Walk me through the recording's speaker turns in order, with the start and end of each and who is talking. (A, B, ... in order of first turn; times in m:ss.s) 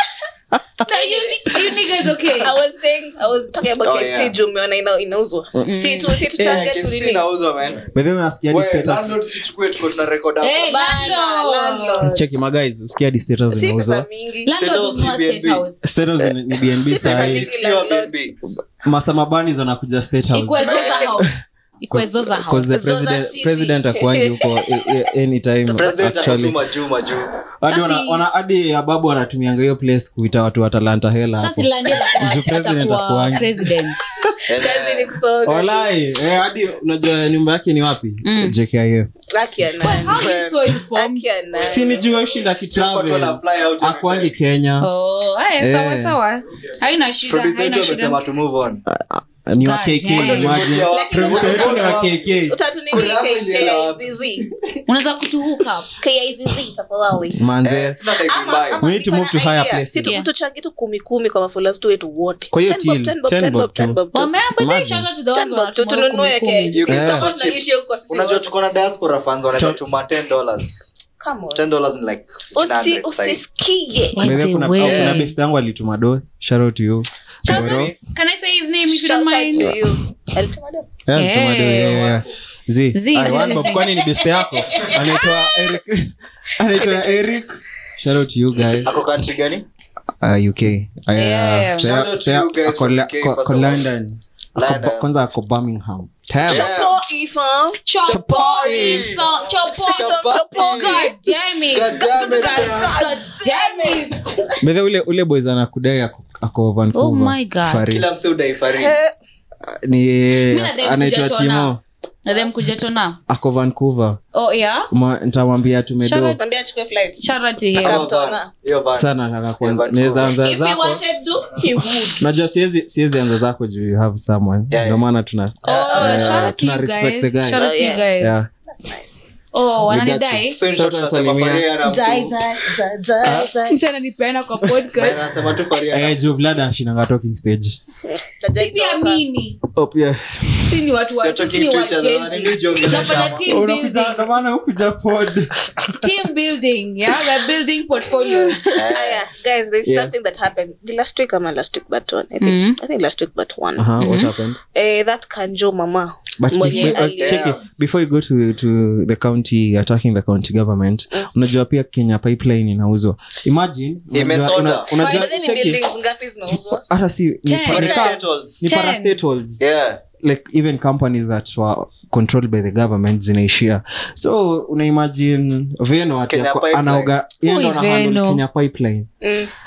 0:00.5-0:00.9 A
0:00.8-0:02.5 B
0:00.9-0:01.4 C
0:02.4-0:07.2 C
0:03.8-0:04.3 D
0:05.6-0:06.2 B
0:06.4-0:07.9 D
0:07.9-0:09.2 A
0:08.5-0:10.7 D
0:10.4-0:12.3 B
0:10.7-0:12.2 C
0:12.0-0:14.0 A
0:13.5-0:14.5 C
0:14.4-0:15.9 B
0:14.5-0:15.7 D
0:15.8-0:17.5 A
0:16.7-0:18.1 C
0:17.0-0:18.4 D
0:18.8-0:21.3 A
0:20.3-0:22.8 B
0:20.6-0:21.1 D
0:20.7-0:21.0 C
0:21.9-0:26.6 A
0:22.7-0:24.5 C
0:25.7-0:27.3 D
0:27.6-0:33.7 A
0:27.7-0:28.2 B
0:31.4-0:34.1 B
0:34.5-0:35.1 D
0:34.5-0:35.9 C
0:35.4-0:39.1 A
0:38.2-0:38.6 B
0:39.3-0:42.0 C
0:39.8-0:41.3 B
0:40.1-0:40.6 D
0:41.6-0:44.9 A
0:42.5-0:44.4 D
0:44.8-0:48.2 B
0:45.6-0:46.2 A
0:47.3-0:48.8 D
0:48.9-0:52.6 A
0:49.6-0:50.6 B
0:50.1-0:52.2 D
0:50.6-0:54.4 C
0:52.9-0:54.5 D
0:54.9-0:55.9 B
0:56.0-0:57.4 C
0:57.3-0:58.0 A
0:57.6-0:58.8 D
0:58.1-1:04.3 C
0:58.8-1:00.2 A
1:02.5-1:04.0 A
1:04.1-1:06.9 B
1:04.6-1:05.1 A
1:05.3-1:08.5 C
1:06.7-1:10.9 D
1:06.9-1:07.3 A
1:09.5-1:09.8 A
1:11.2-1:11.6 C
1:11.5-1:13.4 D
1:12.5-1:14.3 C
1:14.1-1:15.3 B
1:14.2-1:17.9 A
1:14.8-1:15.2 D
1:17.4-1:19.8 B
1:17.4-1:18.0 D
1:18.9-1:20.9 C
1:21.1-1:28.9 A
1:21.2-1:22.1 B
1:22.9-1:23.9 B
1:23.7-1:25.6 C
1:26.7-1:27.4 C
1:28.8-1:29.6 D
1:30.2-1:36.7 A
1:31.1-1:31.9 B
1:31.8-1:33.8 D
1:34.6-1:35.0 D
1:36.4-1:37.0 D
1:36.4-1:37.8 C
1:37.9-1:44.4 B
1:38.0-1:39.2 D
1:38.1-1:39.2 A
1:39.6-1:41.2 C
1:39.8-1:41.1 D
1:41.7-1:43.1 D
1:41.9-1:44.4 C
1:44.6-1:48.1 A
1:46.9-1:47.9 B
1:47.8-1:49.0 D
1:48.7-1:49.1 C
1:49.6-1:51.8 A
1:50.5-1:51.7 B
1:52.2-1:53.2 B
1:53.3-1:54.2 A
1:54.3-1:54.9 B
1:54.9-1:56.4 A
1:56.0-1:56.4 B
1:56.4-1:57.2 C
1:57.2-1:58.0 B
1:57.8-2:00.3 D
1:57.8-1:58.5 C
1:58.9-2:01.0 A
2:00.4-2:02.3 C
2:02.2-2:07.7 A
2:04.7-2:05.0 D
2:05.6-2:08.4 B
2:05.7-2:06.5 C
2:07.5-2:08.0 C
2:08.2-2:08.5 A
2:08.6-2:09.3 C
2:09.5-2:10.6 B
2:09.8-2:11.7 A
2:10.5-2:12.4 D
2:11.8-2:13.8 C
2:13.3-2:15.3 B
2:14.6-2:14.9 A
2:14.9-2:16.2 D
2:15.9-2:17.8 A
2:18.1-2:19.2 C
2:18.6-2:19.6 B
2:19.7-2:20.8 A
2:20.6-2:24.2 B
2:21.1-2:23.4 D
2:23.4-2:26.0 A
2:26.0-2:28.7 B
2:28.6-2:33.9 C
2:28.7-2:29.2 D
2:29.8-2:30.1 A
2:32.4-2:32.8 B
2:33.8-2:34.6 A
2:34.0-2:34.3 B
2:34.7-2:37.5 C
2:36.4-2:45.8 A
2:36.6-2:37.0 B
2:37.2-2:37.6 D
2:44.1-2:45.0 D
2:44.9-2:46.8 C
2:46.9-2:49.6 A
2:47.4-2:49.2 B
2:47.7-2:48.6 D
2:49.6-2:50.0 D
2:50.2-2:59.1 A
2:56.3-2:57.1 D
2:57.4-2:58.4 B
2:59.2-2:59.5 C